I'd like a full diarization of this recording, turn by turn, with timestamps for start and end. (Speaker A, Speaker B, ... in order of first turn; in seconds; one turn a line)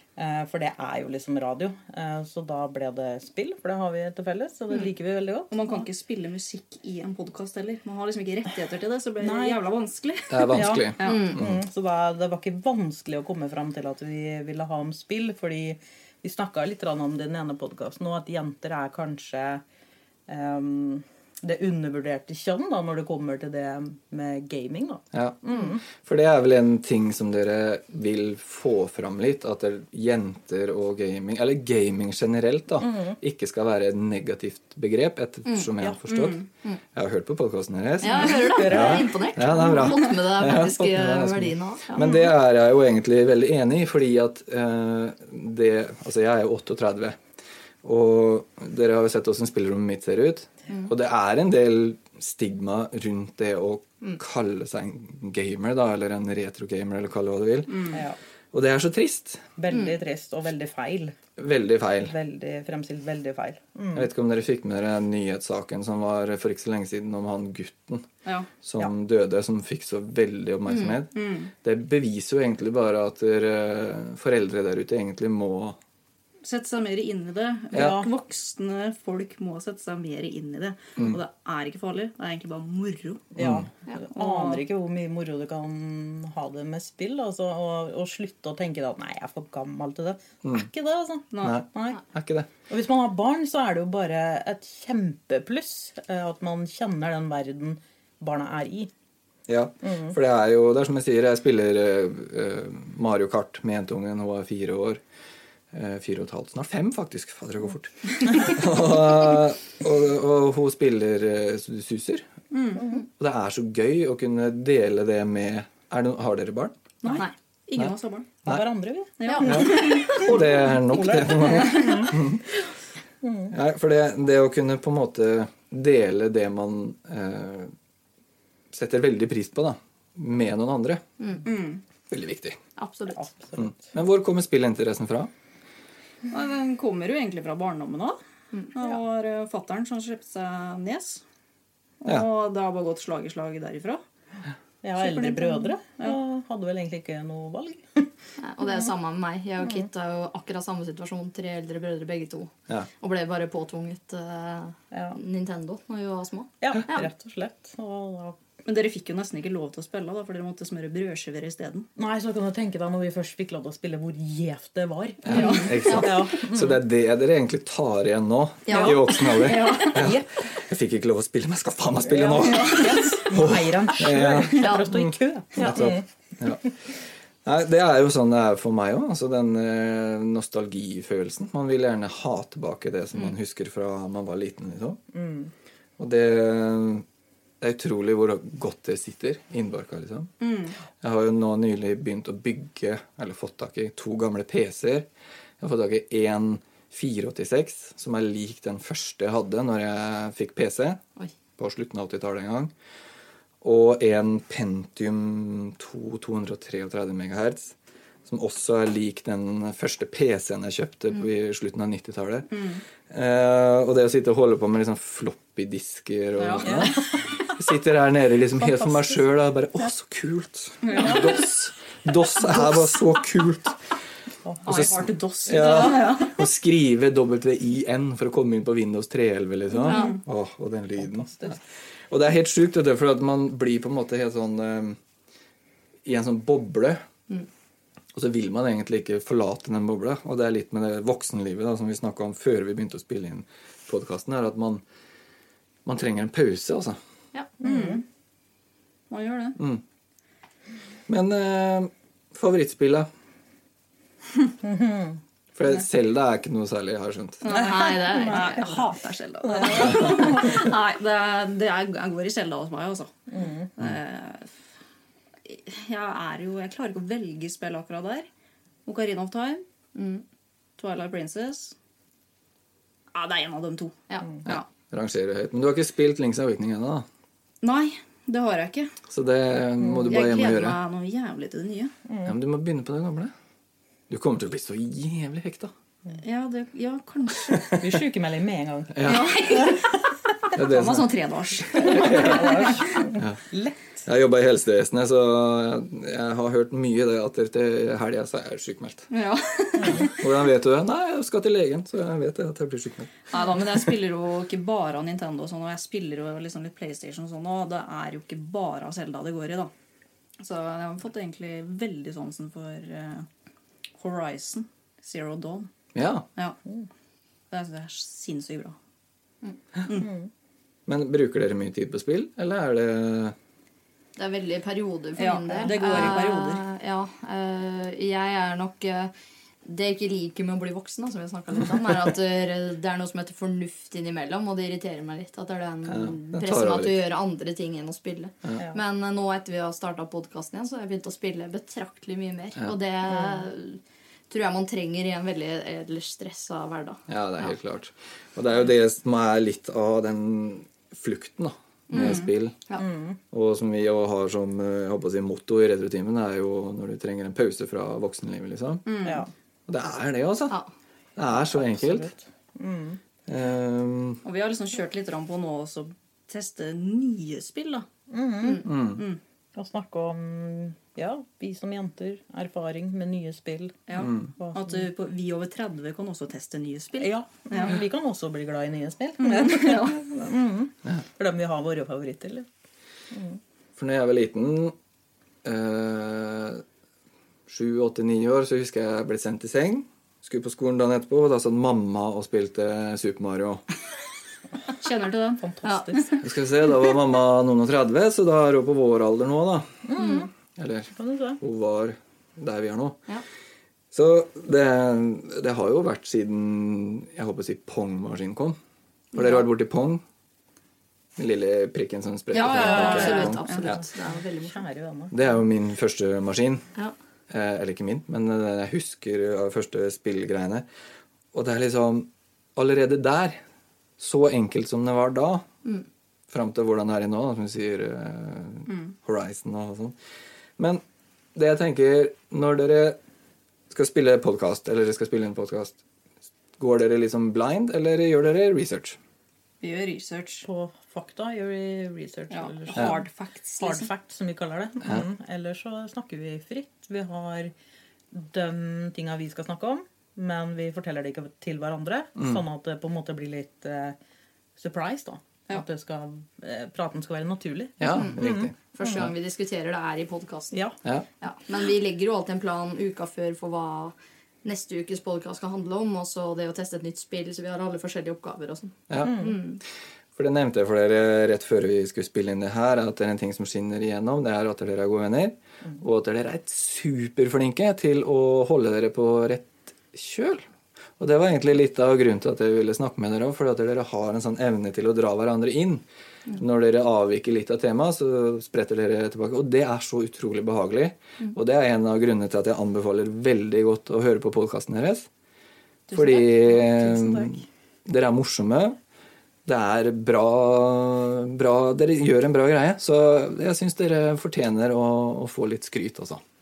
Speaker A: 0.2-5.6
Speaker B: 5.5-11.3
Speaker A: 9.2-9.6
Speaker C: 10.3-11.6
Speaker A: 10.5-19.6
Speaker D: 11.0-11.4
Speaker A: 20.3-25.8
Speaker C: 25.1-36.4
Speaker A: 32.8-33.2
Speaker D: 35.5-35.7
Speaker B: 36.1-36.5
Speaker C: 37.0-47.2
Speaker D: 38.0-42.1
Speaker A: 38.1-39.2
Speaker A: 42.0-42.3
Speaker C: 47.8-58.0
Speaker B: 57.7-58.0
Speaker A: 57.9-58.2
Speaker C: 58.5-59.4
Speaker A: 59.6-61.1
Speaker C: 61.4-62.1
Speaker A: 62.0-64.1
Speaker C: 63.9-68.1
Speaker C: 68.6-75.8
Speaker D: 70.7-71.0
Speaker B: 71.1-71.5
Speaker B: 76.4-83.4
Speaker C: 77.7-78.0
Speaker A: 77.7-78.1
Speaker A: 83.4-92.0
Speaker C: 83.4-83.7
Speaker B: 84.1-84.6
Speaker B: 91.3-91.6
Speaker C: 91.4-92.5
Speaker A: 92.7-98.9
Speaker C: 99.5-105.0
Speaker A: 99.8-100.1
Speaker C: 105.7-112.3
Speaker B: 112.5-113.0
Speaker C: 113.2-116.8
Speaker B: 117.0-118.3
Speaker A: 118.5-122.1
Speaker B: 119.2-122.1
Speaker D: 119.3-120.3
Speaker C: 119.4-122.4
Speaker A: 123.2-123.5
Speaker C: 123.5-127.7
Speaker C: 128.7-131.0
Speaker D: 131.2-131.5
Speaker B: 131.5-131.8
Speaker C: 132.1-132.6
Speaker D: 132.8-133.2
Speaker A: 133.1-133.8
Speaker C: 133.6-135.3
Speaker B: 136.3-138.2
Speaker B: 138.7-141.2
Speaker B: 142.0-144.0
Speaker A: 144.8-148.1
Speaker B: 145.0-146.2
Speaker D: 148.4-157.1
Speaker A: 154.9-155.2
Speaker A: 156.6-158.4
Speaker B: 158.7-161.9
Speaker A: 162.0-166.8
Speaker C: 165.2-175.0
Speaker D: 165.3-166.2
Speaker B: 165.3-165.7
Speaker D: 168.7-169.3
Speaker B: 168.7-170.1
Speaker A: 169.9-170.2
Speaker A: 172.0-176.0
Speaker B: 172.4-173.2
Speaker D: 174.5-174.9
Speaker C: 175.6-176.7
Speaker C: 177.4-185.0
Speaker A: 185.1-185.5
Speaker C: 186.0-187.0
Speaker C: 187.6-190.3
Speaker B: 190.4-190.8
Speaker C: 191.0-195.1
Speaker C: 195.6-201.0
Speaker C: 201.6-202.7
Speaker C: 203.6-207.7
Speaker C: 208.3-212.5
Speaker B: 212.5-212.8
Speaker C: 213.1-223.8
Speaker B: 216.4-216.9
Speaker A: 218.6-219.2
Speaker B: 220.8-221.3
Speaker A: 224.4-224.7
Speaker B: 224.7-226.4
Speaker C: 224.7-235.0
Speaker A: 225.6-225.9
Speaker D: 229.9-230.2
Speaker B: 229.9-230.2
Speaker A: 231.0-231.6
Speaker C: 236.1-237.0
Speaker C: 238.1-244.8
Speaker C: 245.8-247.0
Speaker B: 247.6-248.0
Speaker A: 247.6-248.0
Speaker B: 249.1-249.6
Speaker C: 251.1-253.1
Speaker A: 254.6-255.2
Speaker C: 255.6-257.5
Speaker B: 257.4-264.5
Speaker A: 257.5-258.9
Speaker D: 257.5-258.9
Speaker A: 259.5-260.3
Speaker D: 259.9-260.3
Speaker A: 263.3-263.7
Speaker B: 265.4-268.3
Speaker B: 268.9-269.6
Speaker D: 269.9-270.2
Speaker B: 270.8-271.8
Speaker B: 273.1-274.6
Speaker C: 274.5-277.1
Speaker B: 277.6-278.9
Speaker C: 279.1-280.8
Speaker B: 280.1-281.9
Speaker A: 282.1-282.3
Speaker C: 282.2-283.3
Speaker C: 284.1-285.7
Speaker B: 286.2-287.6
Speaker C: 287.5-287.8
Speaker A: 287.7-289.7
Speaker C: 288.9-289.4
Speaker B: 289.0-290.0
Speaker C: 290.6-291.1
Speaker B: 290.6-293.0
Speaker C: 291.8-292.6
Speaker A: 291.8-294.1
Speaker C: 294.1-299.1
Speaker B: 299.1-300.1
Speaker C: 299.9-303.4
Speaker B: 303.3-309.7
Speaker B: 310.4-313.3
Speaker B: 314.0-315.7
Speaker C: 315.9-316.3
Speaker B: 317.5-318.8
Speaker A: 319.9-320.3
Speaker C: 320.9-323.4
Speaker D: 324.2-329.1
Speaker B: 325.2-326.6
Speaker D: 329.6-347.0
Speaker C: 335.9-337.0
Speaker C: 347.1-352.6
Speaker D: 351.9-352.9
Speaker B: 351.9-352.3
Speaker A: 352.8-353.2
Speaker C: 353.3-358.8
Speaker B: 358.9-359.3
Speaker A: 359.0-359.3
Speaker C: 359.7-360.6
Speaker C: 361.2-362.1
Speaker A: 361.4-363.0
Speaker C: 363.3-364.2
Speaker B: 364.2-367.9
Speaker A: 368.1-368.7
Speaker C: 368.6-369.0
Speaker B: 368.8-369.2
Speaker A: 369.6-374.9
Speaker B: 373.9-377.8
Speaker C: 374.0-374.3
Speaker A: 377.0-382.5
Speaker B: 379.2-380.0
Speaker A: 383.1-383.4
Speaker C: 383.8-384.7
Speaker C: 385.4-386.6
Speaker C: 387.5-393.6
Speaker B: 394.8-396.1
Speaker A: 395.4-396.1
Speaker C: 396.2-399.7
Speaker A: 399.9-400.3
Speaker D: 400.0-400.3
Speaker C: 400.6-403.0
Speaker A: 400.9-401.4
Speaker C: 403.9-408.6
Speaker C: 409.1-410.0
Speaker D: 409.1-409.4
Speaker C: 411.2-413.8
Speaker D: 412.3-414.6
Speaker A: 412.5-413.8
Speaker B: 412.6-413.7
Speaker A: 414.4-415.2
Speaker C: 415.1-416.6
Speaker C: 417.3-420.7
Speaker C: 421.3-423.4
Speaker C: 424.0-425.4
Speaker C: 426.3-430.0
Speaker B: 428.7-428.9
Speaker C: 431.4-433.0
Speaker C: 433.7-435.8
Speaker C: 436.6-439.0
Speaker B: 439.6-440.5
Speaker A: 440.4-443.0
Speaker B: 442.3-443.9
Speaker A: 443.6-447.5
Speaker A: 448.1-454.0
Speaker A: 454.6-459.0
Speaker C: 457.8-459.1
Speaker D: 457.9-460.6
Speaker D: 461.2-469.6
Speaker C: 468.9-469.4
Speaker A: 469.0-469.4
Speaker C: 470.2-480.4
Speaker C: 481.0-495.1
Speaker B: 495.9-496.3
Speaker C: 495.9-498.8
Speaker A: 496.5-497.4
Speaker C: 499.5-506.2